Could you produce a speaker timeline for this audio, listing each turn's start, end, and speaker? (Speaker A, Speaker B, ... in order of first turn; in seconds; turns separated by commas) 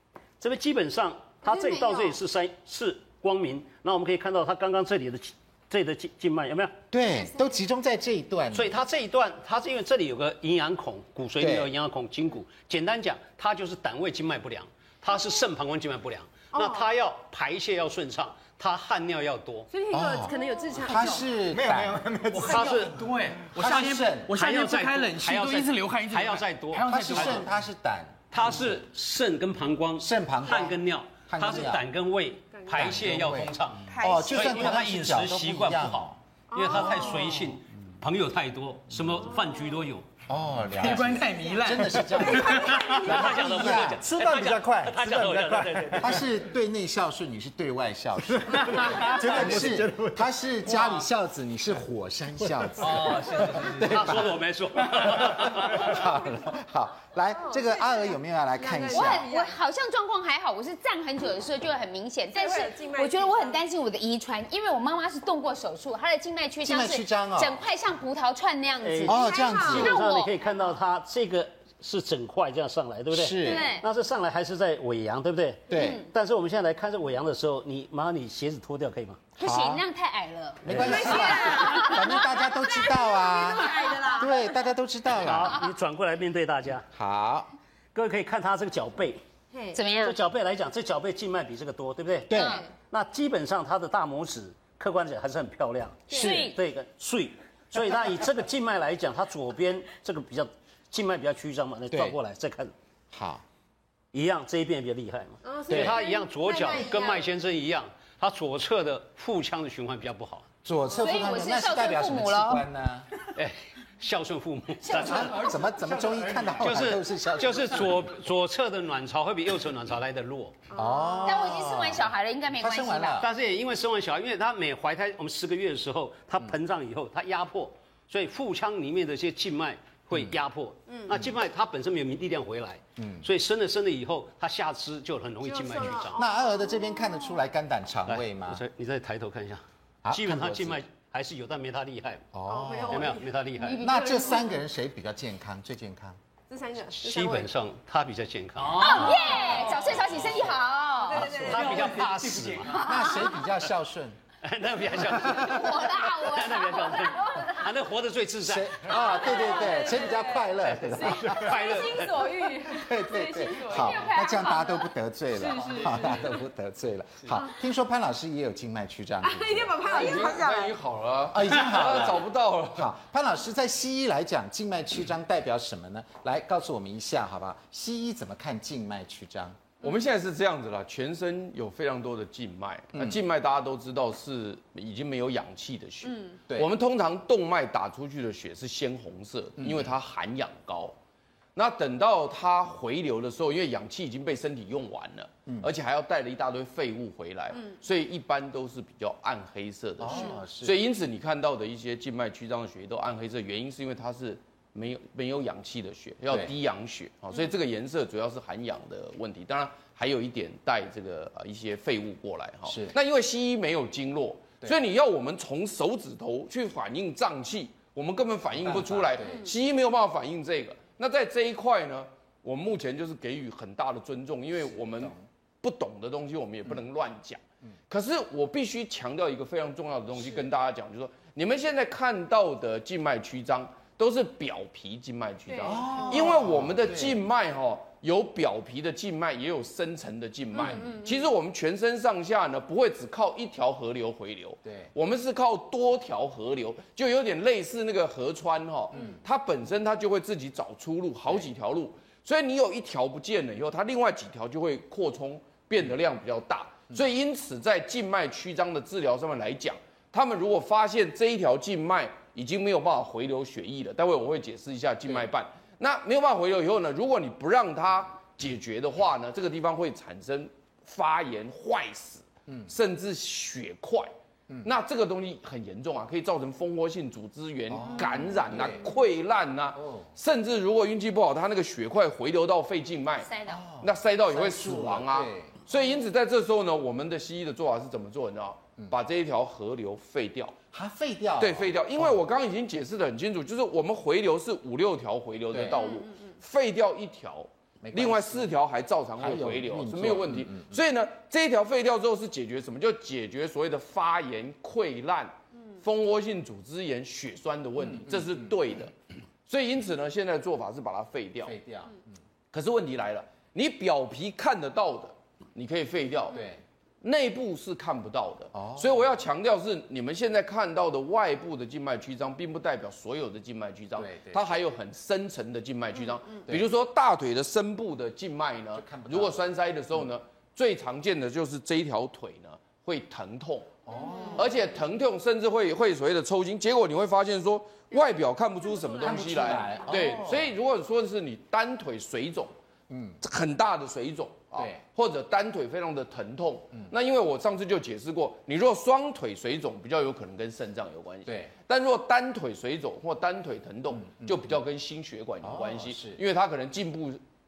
Speaker A: 0.4-6.8, Speaker B: 1.4-2.2, Speaker C: 6.9-8.8, Speaker A: 8.5-19.7, Speaker C: 11.4-11.7, Speaker B: 16.5-16.9, Speaker B: 19.7-21.3, Speaker C: 19.9-22.8, Speaker D: 21.5-27.5, Speaker A: 22.4-23.0, Speaker C: 23.5-24.4, Speaker A: 24.3-27.4, Speaker C: 26.8-28.7, Speaker A: 28.3-40.1, Speaker C: 30.0-31.9, Speaker B: 32.5-32.9, Speaker C: 32.7-37.5, Speaker B: 33.9-34.8, Speaker B: 36.5-37.4, Speaker C: 39.0-39.2, Speaker B: 39.3-39.7, Speaker C: 40.3-45.2, Speaker D: 40.7-43.2, Speaker B: 41.3-43.7, Speaker A: 42.6-46.2, Speaker D: 43.8-46.1, Speaker C: 45.9-54.3, Speaker D: 48.5-50.1, Speaker A: 48.8-49.5, Speaker D: 50.7-51.0, Speaker D: 52.8-54.0, Speaker A: 52.9-56.0, Speaker C: 54.9-59.3, Speaker B: 57.4-59.6, Speaker E: 58.9-70.4, Speaker B: 62.3-63.6, Speaker C: 66.6-67.6, Speaker A: 68.8-79.2, Speaker C: 69.0-70.0, Speaker B: 69.0-69.9, Speaker C: 73.1-73.7, Speaker E: 73.4-73.8, Speaker C: 75.7-76.0, Speaker E: 75.7-76.1, Speaker C: 79.4-79.8, Speaker E: 79.4-82.2, Speaker C: 80.6-85.6, Speaker A: 80.7-81.3, Speaker B: 80.7-84.6, Speaker A: 85.1-86.8, Speaker C: 86.9-87.5, Speaker A: 87.9-89.2, Speaker B: 89.5-89.8, Speaker E: 89.7-90.2, Speaker A: 90.0-102.7, Speaker C: 92.3-92.6, Speaker E: 92.3-92.7, Speaker C: 96.1-96.5, Speaker E: 96.1-96.6, Speaker C: 101.9-102.2, Speaker C: 103.1-103.4, Speaker A: 104.1-110.5, Speaker B: 105.4-107.3, Speaker C: 105.7-106.0, Speaker C: 110.6-113.1, Speaker E: 110.9-112.6, Speaker A: 113.3-115.5, Speaker D: 114.9-116.7, Speaker C: 114.9-118.0, Speaker A: 116.6-120.5, Speaker B: 120.7-121.4, Speaker C: 120.7-123.3, Speaker E: 121.2-123.2, Speaker A: 123.2-136.2, Speaker C: 131.1-131.3, Speaker C: 133.0-133.2, Speaker B: 135.4-136.8, Speaker C: 136.1-138.6, Speaker A: 138.1-142.3, Speaker C: 140.0-140.8, Speaker C: 142.3-143.2, Speaker B: 142.5-144.6, Speaker A: 142.9-143.8, Speaker E: 143.6-144.4, Speaker C: 143.8-146.2, Speaker B: 146.5-147.5, Speaker A: 146.9-149.7, Speaker D: 148.7-150.1, Speaker E: 148.8-151.2, Speaker B: 151.1-151.8, Speaker A: 151.1-153.1, Speaker D: 151.1-153.0, Speaker C: 152.8-154.2, Speaker E: 152.8-153.4, Speaker A: 154.4-159.2, Speaker C: 155.0-155.7, Speaker E: 155.2-157.7, Speaker C: 158.4-161.8, Speaker B: 158.9-164.2, Speaker A: 160.6-162.2, Speaker C: 162.7-170.0, Speaker E: 163.7-164.9, Speaker B: 165.3-166.4, Speaker B: 169.2-170.8, Speaker F: 169.8-172.9, Speaker C: 171.3-179.6, Speaker F: 179.8-190.9, Speaker C: 182.9-183.2, Speaker C: 189.6-189.9, Speaker F: 191.5-274.1, Speaker C: 200.0-200.8, Speaker C: 212.7-212.9, Speaker C: 218.6-219.5, Speaker C: 224.7-225.2, Speaker B: 235.5-236.2, Speaker C: 235.6-237.2, Speaker B: 240.5-241.1, Speaker C: 240.6-240.8, Speaker F: 274.6-290.6, Speaker C: 277.7-278.9, Speaker C: 279.8-280.1, Speaker E: 283.2-283.6, Speaker C: 283.5-285.5, Speaker C: 290.7-292.2, Speaker F: 291.4-308.9, Speaker C: 295.5-295.8, Speaker C: 297.8-298.5, Speaker C: 299.2-300.8, Speaker C: 307.9-308.4, Speaker F: 309.4-311.5, Speaker C: 311.4-312.1, Speaker F: 312.5-316.5, Speaker C: 316.3-316.6, Speaker F: 317.0-333.8, Speaker C: 318.5-319.1, Speaker C: 323.9-324.4, Speaker C: 328.8-329.4, Speaker C: 333.9-334.6, Speaker B: 333.9-334.3, Speaker F: 334.3-342.5, Speaker C: 339.0-340.5, Speaker C: 342.9-343.2, Speaker F: 343.2-357.2, Speaker C: 354.0-354.4, Speaker C: 355.4-356.2